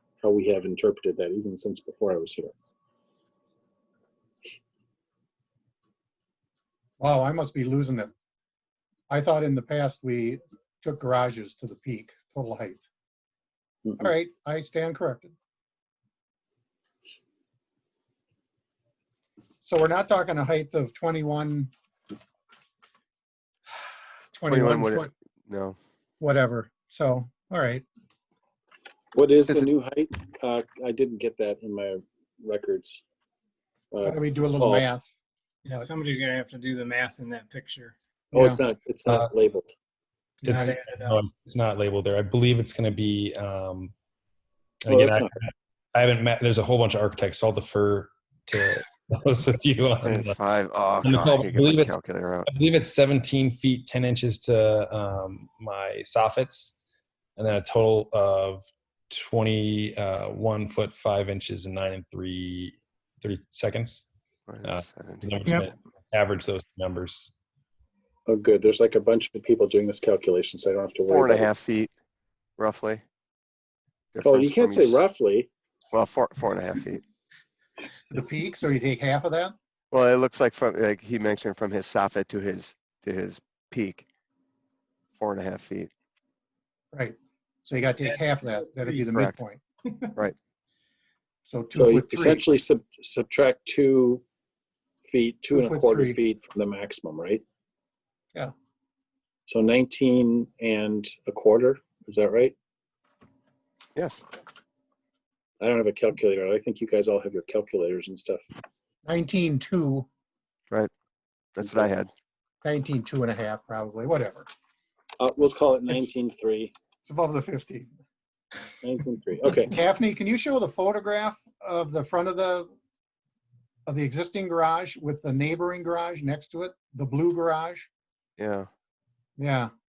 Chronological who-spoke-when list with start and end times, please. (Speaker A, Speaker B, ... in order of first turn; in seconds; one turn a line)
Speaker A: 0.2-2.5
Speaker B: 7.0-8.1
Speaker B: 9.1-12.8
Speaker B: 14.0-15.3
Speaker B: 19.6-21.7
Speaker B: 24.3-25.1
Speaker C: 24.5-25.8
Speaker B: 26.2-27.9
Speaker A: 29.1-33.0
Speaker A: 33.9-34.9
Speaker B: 34.0-35.2
Speaker D: 35.6-38.0
Speaker B: 38.3-38.6
Speaker A: 38.3-39.7
Speaker B: 40.4-40.8
Speaker E: 40.5-43.9
Speaker D: 40.6-41.2
Speaker E: 44.8-50.4
Speaker A: 44.9-45.3
Speaker C: 50.0-52.5
Speaker E: 51.0-56.8
Speaker E: 57.4-64.1
Speaker C: 64.5-65.4
Speaker E: 64.6-67.3
Speaker A: 68.3-71.5
Speaker C: 71.1-71.9
Speaker C: 72.6-73.0
Speaker C: 74.1-75.0
Speaker A: 74.2-75.5
Speaker C: 75.9-77.0
Speaker B: 78.1-79.5
Speaker C: 79.9-84.1
Speaker C: 85.2-85.9
Speaker B: 86.9-89.6
Speaker B: 91.5-92.4
Speaker A: 91.7-94.2
Speaker A: 95.0-97.4
Speaker B: 95.5-96.2
Speaker A: 99.5-102.6
Speaker C: 104.0-104.2
Speaker A: 105.6-108.5
Speaker B: 109.0-110.1
Speaker C: 111.6-112.1
Speaker A: 111.7-111.9
Speaker B: 112.6-114.5
Speaker A: 115.2-116.7
Speaker B: 117.0-117.9
Speaker A: 118.8-119.8
Speaker B: 119.7-122.7
Speaker B: 123.9-127.9
Speaker C: 128.4-128.7
Speaker B: 129.4-129.7